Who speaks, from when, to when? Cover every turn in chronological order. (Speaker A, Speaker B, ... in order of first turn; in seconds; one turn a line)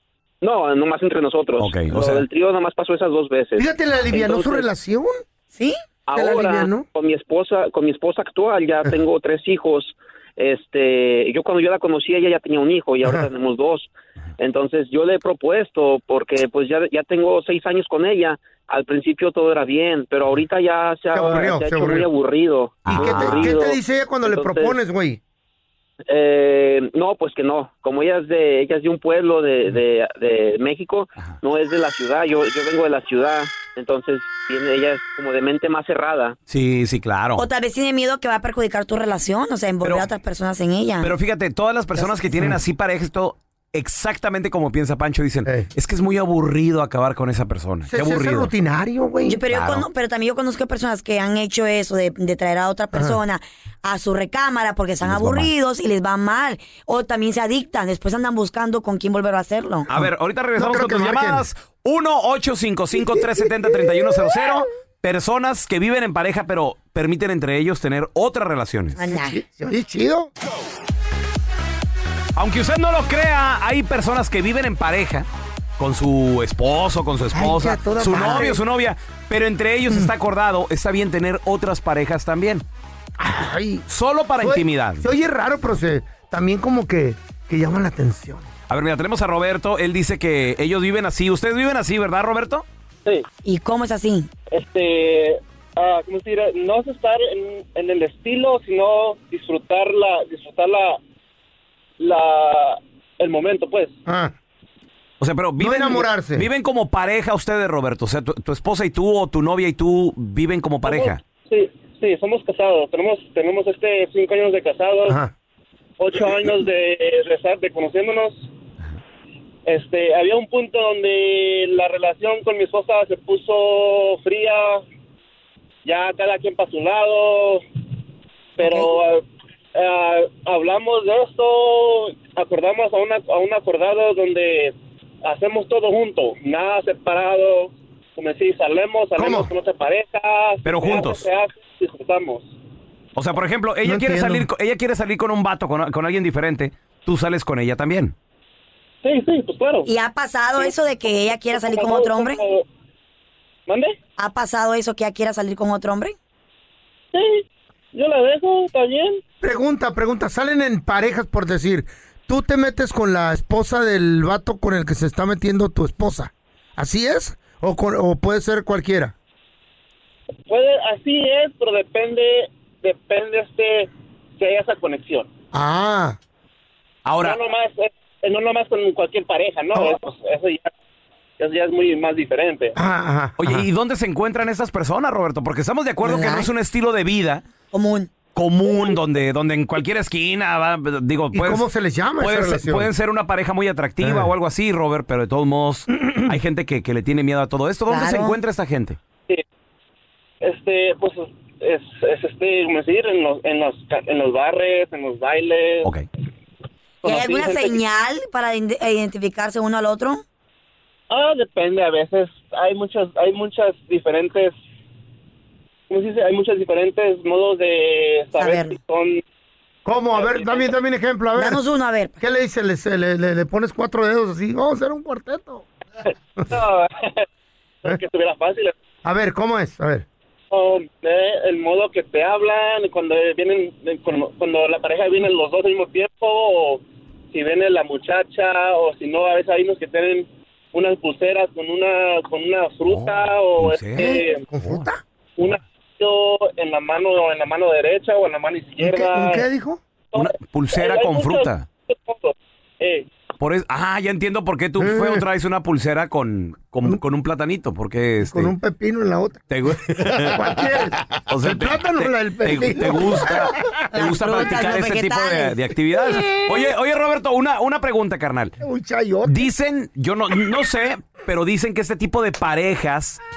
Speaker A: 0.4-4.7
Speaker B: 1.6-2.2
Speaker C: 3.6-5.2
Speaker A: 6.1-24.7
Speaker C: 6.1-6.8
Speaker C: 21.1-22.1
Speaker B: 22.8-23.6
Speaker C: 22.9-25.2
Speaker A: 26.1-36.4
Speaker B: 36.5-37.5
Speaker D: 37.4-41.1
Speaker B: 41.0-48.5
Speaker C: 47.9-49.4
Speaker D: 49.3-59.9
Speaker B: 49.5-49.9
Speaker C: 52.9-53.2
Speaker B: 55.0-55.5
Speaker B: 59.9-69.0
Speaker C: 60.0-61.4
Speaker D: 69.0-69.4
Speaker C: 69.1-70.3
Speaker B: 72.3-75.2
Speaker B: 75.8-82.6
Speaker C: 77.3-78.6
Speaker C: 83.2-83.8
Speaker B: 83.9-85.0
Speaker C: 84.4-88.5
Speaker B: 88.7-92.6
Speaker D: 93.4-94.3
Speaker E: 94.5-101.0
Speaker E: 102.0-104.0
Speaker C: 104.0-104.3
Speaker B: 105.2-111.2
Speaker C: 105.6-106.5
Speaker E: 110.8-115.2
Speaker C: 115.1-115.3
Speaker E: 116.0-118.5
Speaker E: 119.6-124.8
Speaker E: 125.8-127.6
Speaker E: 128.6-129.2
Speaker D: 128.6-128.9
Speaker E: 129.7-142.5
Speaker C: 139.2-139.5
Speaker B: 140.6-141.2
Speaker B: 143.2-148.1
Speaker C: 143.8-144.5
Speaker E: 149.0-149.9
Speaker D: 149.8-152.4
Speaker E: 151.4-152.7
Speaker E: 153.7-154.0
Speaker D: 154.2-156.2
Speaker E: 157.1-159.2
Speaker C: 159.4-169.1
Speaker E: 170.5-175.3
Speaker C: 175.5-176.2
Speaker B: 177.1-177.4
Speaker E: 177.2-180.7
Speaker E: 181.4-182.7
Speaker C: 182.7-183.7
Speaker B: 183.4-187.4
Speaker D: 186.0-186.5
Speaker D: 187.7-188.1
Speaker B: 188.3-191.7
Speaker C: 191.3-192.9
Speaker B: 192.2-199.0
Speaker C: 194.0-194.3
Speaker C: 195.9-196.3
Speaker D: 197.9-198.4
Speaker E: 200.4-205.9
Speaker E: 207.0-207.8
Speaker D: 207.0-210.2
Speaker E: 211.1-214.5
Speaker E: 215.9-219.2
Speaker D: 218.3-218.7
Speaker C: 219.8-221.6
Speaker E: 220.1-220.7
Speaker D: 221.3-222.2
Speaker C: 222.2-225.7
Speaker E: 226.5-227.2
Speaker E: 227.8-228.7
Speaker C: 229.0-230.1
Speaker E: 230.5-244.4
Speaker B: 242.8-244.9
Speaker C: 244.0-245.0
Speaker E: 245.4-249.4
Speaker C: 248.8-249.8
Speaker E: 250.1-253.1
Speaker B: 250.1-251.6
Speaker B: 253.4-258.5
Speaker C: 254.8-255.2
Speaker C: 258.2-263.7
Speaker B: 259.5-268.6
Speaker D: 263.9-265.5
Speaker C: 266.0-266.6
Speaker C: 268.6-269.5
Speaker B: 269.2-273.2